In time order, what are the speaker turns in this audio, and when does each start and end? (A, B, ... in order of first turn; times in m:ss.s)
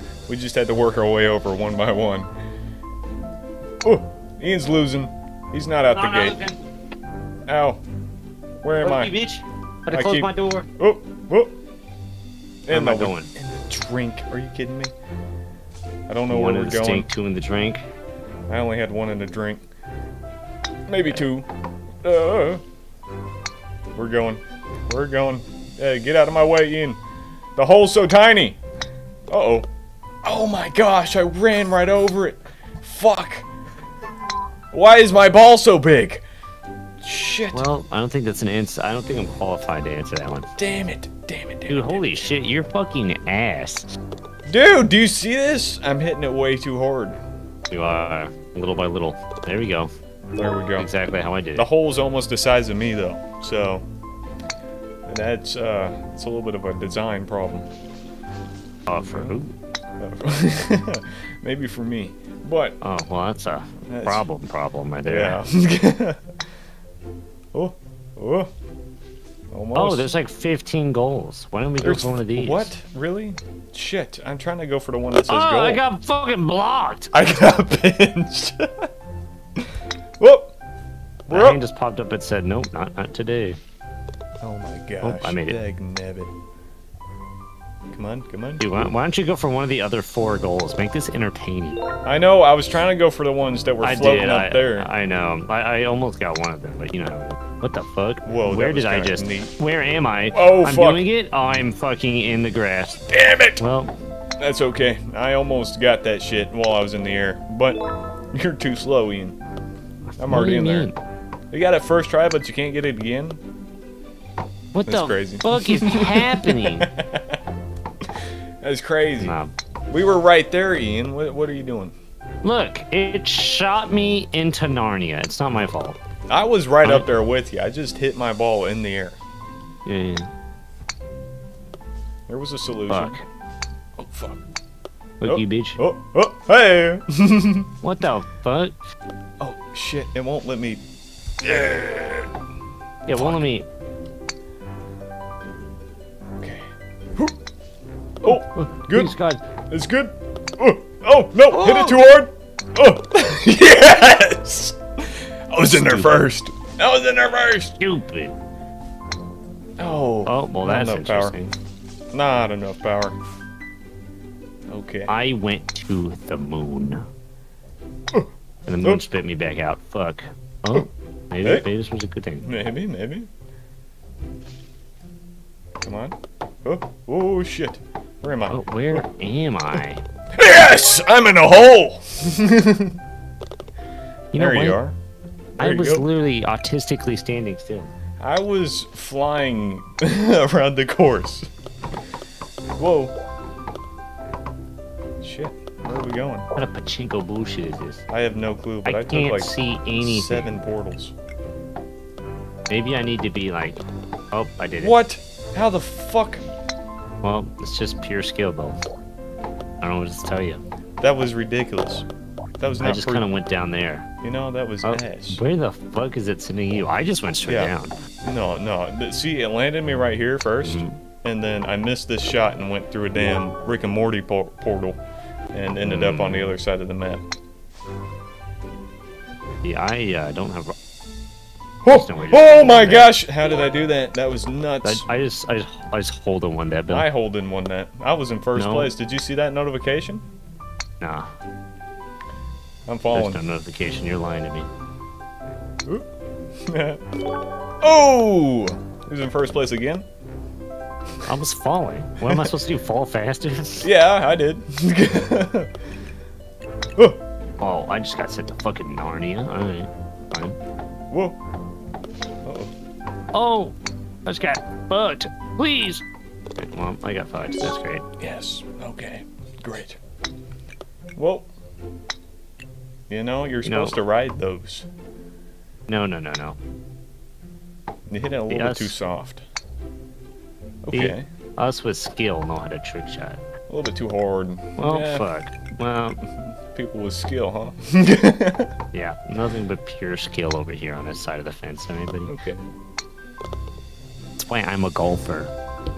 0:00.3-0:02.3 A
0:03.8-0:06.4 A
0:05.9-0:06.6 B
0:07.5-0:07.8 A
0:08.6-0:09.1 A
0:08.8-0:10.7 B
0:09.9-0:11.5 A
0:12.7-0:14.9 A
0:12.7-0:13.3 B
0:16.1-0:17.1 A
0:16.3-0:17.8 B
0:18.5-0:19.6 A
0:20.9-0:21.5 A
0:22.0-0:22.6 A
0:24.0-0:27.0 A
0:27.6-0:28.6 A
0:29.3-0:29.7 A
0:30.2-0:33.5 A
0:34.7-0:36.2 A
0:37.0-0:37.7 A
0:37.5-0:40.5 B
0:40.6-0:42.2 A
0:41.7-0:44.0 B
0:44.5-0:47.2 A
0:47.7-0:49.9 B
0:50.4-0:50.9 A
0:50.8-0:51.7 B
0:51.6-0:53.8 A
0:55.0-0:57.7 A
0:58.8-0:59.5 B
0:59.0-0:59.4 A
1:00.0-1:02.8 A
1:02.8-1:05.4 B
1:03.8-1:04.3 A
1:05.0-1:06.2 A
1:07.5-1:08.5 A
1:09.5-1:10.1 A
1:09.7-1:12.7 B
1:11.8-1:15.8 A
1:15.2-1:17.1 B
1:17.1-1:18.9 A
1:20.2-1:20.5 A
1:21.3-1:23.6 B
1:21.3-1:21.6 A
1:24.4-1:26.3 A
1:25.0-1:25.6 B
1:27.9-1:28.7 A
1:28.6-1:31.8 B
1:32.0-1:34.9 A
1:33.8-1:43.0 B
1:38.2-1:39.5 A
1:40.3-1:41.0 A
1:43.0-1:43.6 A
1:43.6-1:43.9 B
1:44.4-1:49.4 A
1:50.2-1:50.9 A
1:50.2-1:51.0 B
1:51.5-1:53.4 A
1:54.7-1:56.9 B
1:54.8-1:57.4 A
1:58.6-1:59.4 A
1:59.2-1:59.5 B
1:59.9-2:01.9 A
2:02.4-2:06.0 B
2:06.3-2:09.2 A
2:09.8-2:10.3 B
2:12.3-2:13.2 A
2:12.9-2:13.2 B
2:14.0-2:14.4 A
2:15.2-2:15.8 B
2:15.2-2:17.7 A
2:17.8-2:18.8 B
2:19.4-2:20.8 A
2:21.4-2:22.3 A
2:23.0-2:23.7 B
2:23.1-2:23.4 A
2:26.4-2:27.4 A
2:28.2-2:29.4 B
2:28.2-2:29.1 A
2:29.7-2:37.8 A
2:31.5-2:32.0 B
2:35.6-2:36.2 B
2:37.8-2:38.3 B
2:39.8-2:41.3 A
2:40.2-2:41.5 B
2:42.1-2:43.2 A
2:44.7-2:45.1 A
2:45.1-2:47.1 B
2:48.6-2:52.6 B
2:52.4-2:53.3 A
2:55.8-2:59.0 A
2:58.5-3:00.0 B
3:00.3-3:03.0 A
3:04.3-3:04.8 B
3:04.3-3:05.0 A
3:05.6-3:06.0 A
3:05.6-3:07.9 B
3:08.2-3:11.5 A
3:12.8-3:13.1 A
3:15.2-3:16.5 A
3:16.5-3:18.0 B
3:18.1-3:21.1 A
3:18.8-3:20.5 B
3:22.7-3:25.0 B
3:24.8-3:26.4 A
3:27.2-3:28.8 B
3:29.8-3:30.6 B
3:31.0-3:32.0 A
3:32.6-3:33.3 A
3:32.8-3:34.1 B
3:34.2-3:35.4 A
3:34.8-3:38.0 B
3:37.4-3:45.0 A
3:40.6-3:41.0 B
3:45.5-3:47.2 A
3:45.8-3:46.5 B
3:49.6-3:50.8 B
3:51.8-3:55.0 A
3:51.9-3:53.1 B
3:54.8-3:57.1 B
3:56.9-4:00.2 A
3:58.5-3:58.9 B
4:01.0-4:01.3 B
4:02.9-4:03.4 A
4:03.1-4:04.7 B
4:06.6-4:07.0 A
4:07.8-4:10.0 A
4:11.2-4:13.9 B
4:13.8-4:15.7 A
4:17.6-4:20.6 B
4:21.1-4:21.4 A
4:22.4-4:22.7 A
4:23.3-4:26.0 B
4:26.6-4:28.0 B
4:28.2-4:30.0 A
4:31.2-4:31.5 A
4:33.1-4:34.9 A
4:33.6-4:34.0 B
4:35.9-4:36.6 B
4:38.1-4:39.4 A
4:38.5-4:39.0 B
4:40.8-4:41.3 A
4:40.9-4:43.4 B
4:43.7-4:45.2 A
4:44.8-4:46.2 B
4:46.4-4:48.7 A
4:48.9-4:52.4 B
4:52.2-4:52.6 A
4:54.4-4:55.5 B